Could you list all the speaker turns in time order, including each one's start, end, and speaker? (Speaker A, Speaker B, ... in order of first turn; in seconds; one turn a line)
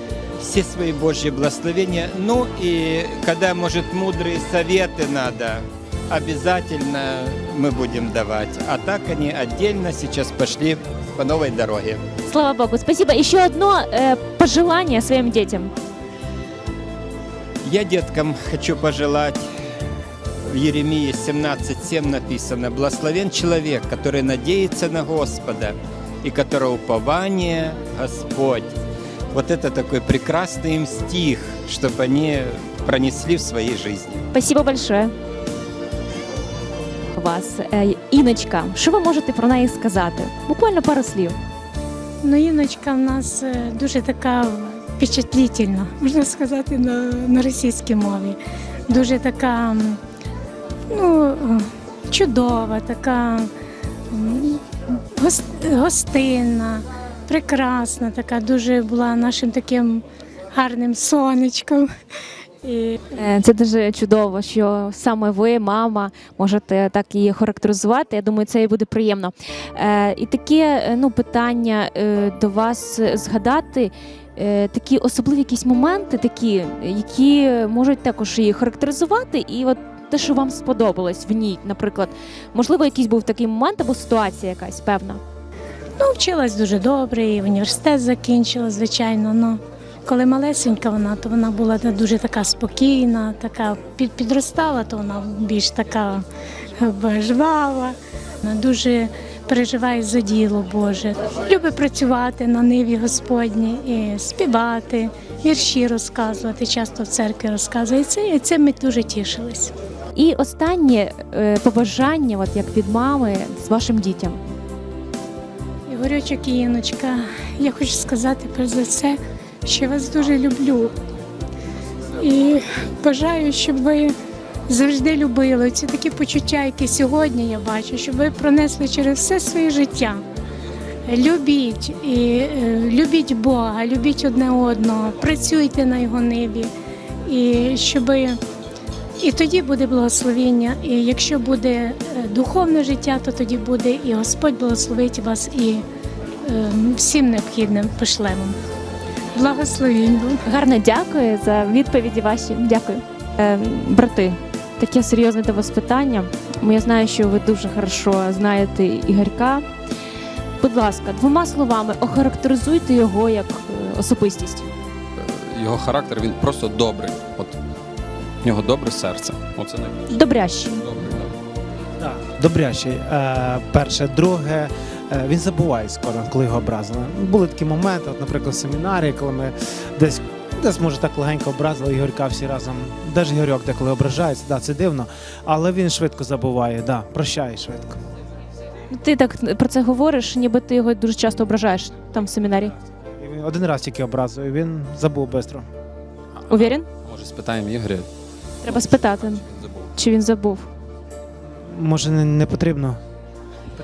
Speaker A: 0.4-12.0
Speaker B: 12.3-15.7
Speaker A: 17.6-19.4
Speaker A: 20.5-28.7
Speaker A: 29.3-34.2
Speaker B: 34.3-35.1
Speaker B: 37.1-41.4
Speaker C: 42.2-48.4
Speaker C: 48.9-50.0
Speaker C: 50.9-53.5
Speaker C: 54.1-54.6
Speaker C: 55.2-60.0
Speaker C: 60.5-61.8
Speaker C: 62.6-63.0
Speaker B: 63.2-85.2
Speaker C: 86.0-96.2
Speaker C: 96.8-97.9
Speaker C: 98.4-109.7
Speaker B: 110.2-114.4
Speaker C: 115.9-120.9
Speaker C: 122.2-124.1
Speaker C: 124.7-130.2
Speaker C: 131.1-136.7
Speaker C: 137.3-138.4
Speaker C: 139.2-145.8
Speaker C: 146.4-148.5
Speaker C: 149.3-150.4
Speaker B: 150.5-159.6
Speaker B: 160.6-164.7
Speaker D: 165.2-167.5
Speaker D: 168.4-170.1
Speaker B: 170.1-170.8
Speaker D: 170.8-171.3
Speaker E: 172.0-188.0
Speaker B: 188.9-192.7
Speaker E: 193.2-195.6
Speaker D: 196.5-198.1
Speaker B: 196.5-196.8
Speaker D: 198.6-199.9
Speaker B: 198.7-199.4
Speaker B: 199.9-200.7
Speaker E: 201.7-203.0